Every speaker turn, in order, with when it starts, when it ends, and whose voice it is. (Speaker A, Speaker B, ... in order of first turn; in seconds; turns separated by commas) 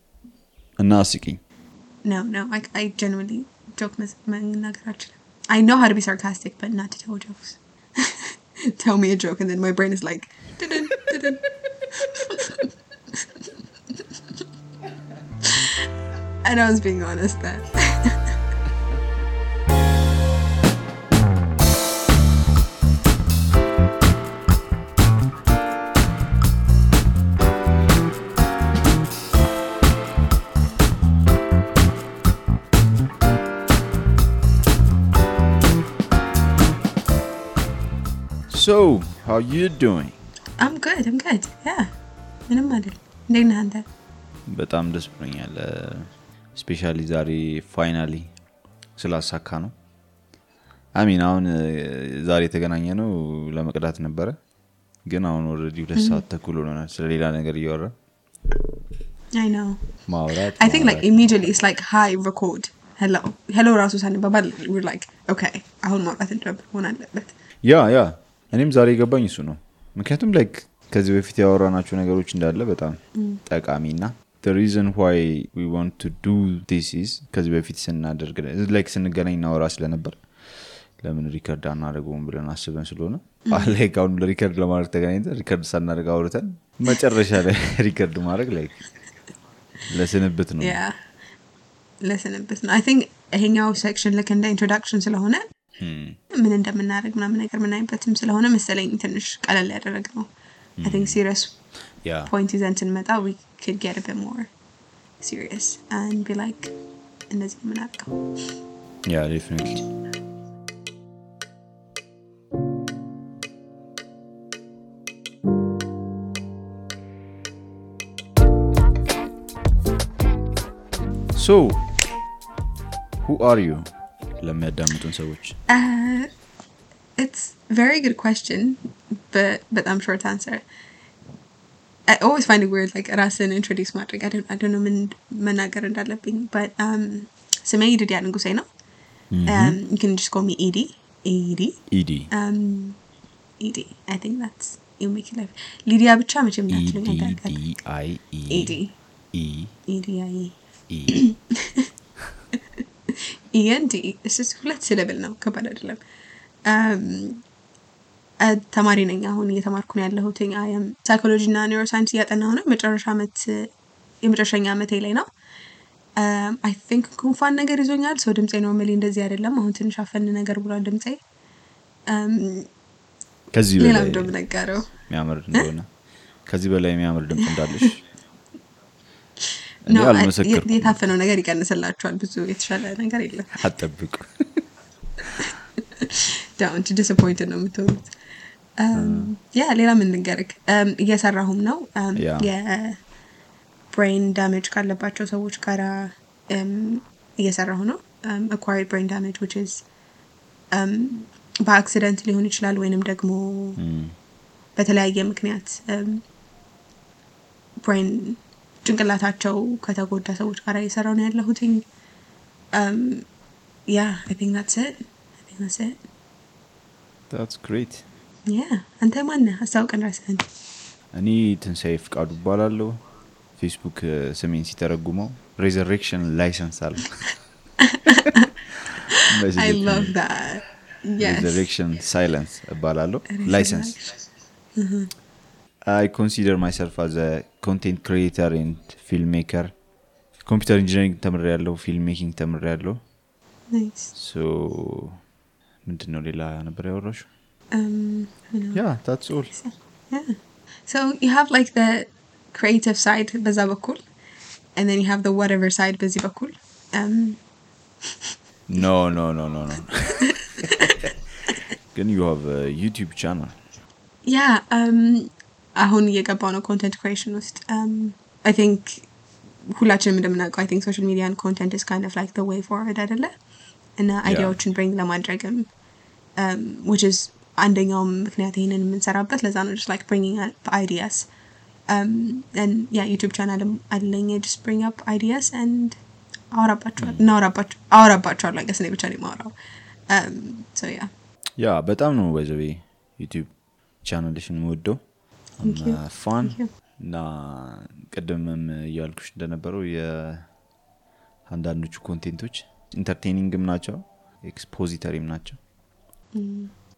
Speaker A: 0.8-1.4, Speaker B: 2.0-14.4, Speaker B: 15.4-15.8, Speaker B: 16.4-18.3, Speaker A: 38.5-40.2, Speaker B: 40.6-41.9, Speaker B: 42.5-43.9, Speaker A: 44.5-48.3, Speaker A: 49.0-49.7, Speaker A: 50.9-54.4, Speaker A: 55.0-57.9, Speaker B: 55.9-56.2, Speaker B: 59.3-59.8, Speaker A: 60.1-61.5, Speaker B: 60.5-67.3, Speaker A: 67.6-88.8, Speaker B: 73.2-73.4, Speaker B: 83.5-83.8, Speaker A: 89.9-90.8, Speaker B: 90.6-91.0, Speaker B: 92.0-95.4, Speaker A: 95.8-96.2, Speaker B: 96.3-100.3, Speaker A: 100.8-101.2, Speaker B: 100.8-101.5, Speaker A: 102.0-102.3, Speaker B: 102.2-104.5, Speaker B: 105.2-106.7, Speaker B: 107.3-108.2, Speaker A: 109.0-109.8, Speaker A: 121.3-121.8, Speaker A: 123.2-125.6, Speaker B: 125.7-126.3, Speaker B: 127.2-130.6, Speaker B: 132.1-138.7, Speaker A: 139.3-139.8, Speaker B: 139.5-143.0, Speaker A: 141.9-142.3, Speaker B: 143.6-147.6, Speaker A: 146.7-148.8, Speaker B: 148.5-148.9, Speaker A: 149.3-149.7, Speaker B: 149.9-150.6, Speaker A: 150.9-151.2, Speaker B: 151.1-151.9, Speaker B: 153.2-156.0, Speaker B: 156.7-157.4, Speaker B: 158.4-163.7, Speaker B: 164.2-165.3, Speaker B: 166.2-171.2, Speaker B: 172.1-172.7, Speaker A: 173.5-175.9, Speaker B: 173.8-174.9, Speaker A: 176.4-178.0, Speaker B: 179.8-183.6, Speaker A: 179.8-181.1, Speaker A: 183.5-184.6, Speaker B: 186.0-188.1, Speaker B: 188.8-193.0, Speaker A: 188.9-189.3, Speaker A: 192.1-192.5, Speaker B: 193.9-199.8, Speaker B: 200.7-203.8, Speaker A: 203.8-204.1, Speaker B: 204.8-206.2, Speaker B: 207.8-211.8, Speaker B: 212.7-213.2, Speaker B: 213.9-216.0, Speaker A: 217.3-218.0, Speaker B: 218.4-220.4, Speaker A: 221.1-223.0, Speaker A: 223.6-227.3, Speaker B: 227.8-228.5, Speaker B: 229.1-231.7, Speaker A: 229.3-230.1, Speaker A: 231.2-234.0, Speaker B: 233.3-234.1, Speaker B: 234.8-235.1, Speaker A: 235.8-239.8, Speaker A: 240.4-243.0, Speaker B: 243.7-244.1, Speaker A: 244.1-245.2, Speaker A: 245.8-247.3, Speaker B: 247.7-248.8, Speaker A: 248.7-249.5, Speaker B: 249.5-250.3, Speaker B: 250.9-254.0, Speaker B: 254.8-257.4, Speaker A: 258.7-260.7, Speaker B: 260.6-261.0, Speaker A: 261.9-263.6, Speaker B: 264.2-269.1, Speaker B: 269.7-273.3, Speaker B: 274.0-275.7, Speaker A: 274.2-274.6, Speaker B: 276.4-281.3, Speaker B: 281.9-286.0, Speaker B: 286.5-289.5, Speaker B: 290.1-291.1, Speaker A: 291.6-293.5, Speaker A: 294.0-295.0, Speaker A: 295.6-300.5, Speaker B: 295.6-296.7, Speaker A: 301.5-305.6, Speaker B: 306.3-306.7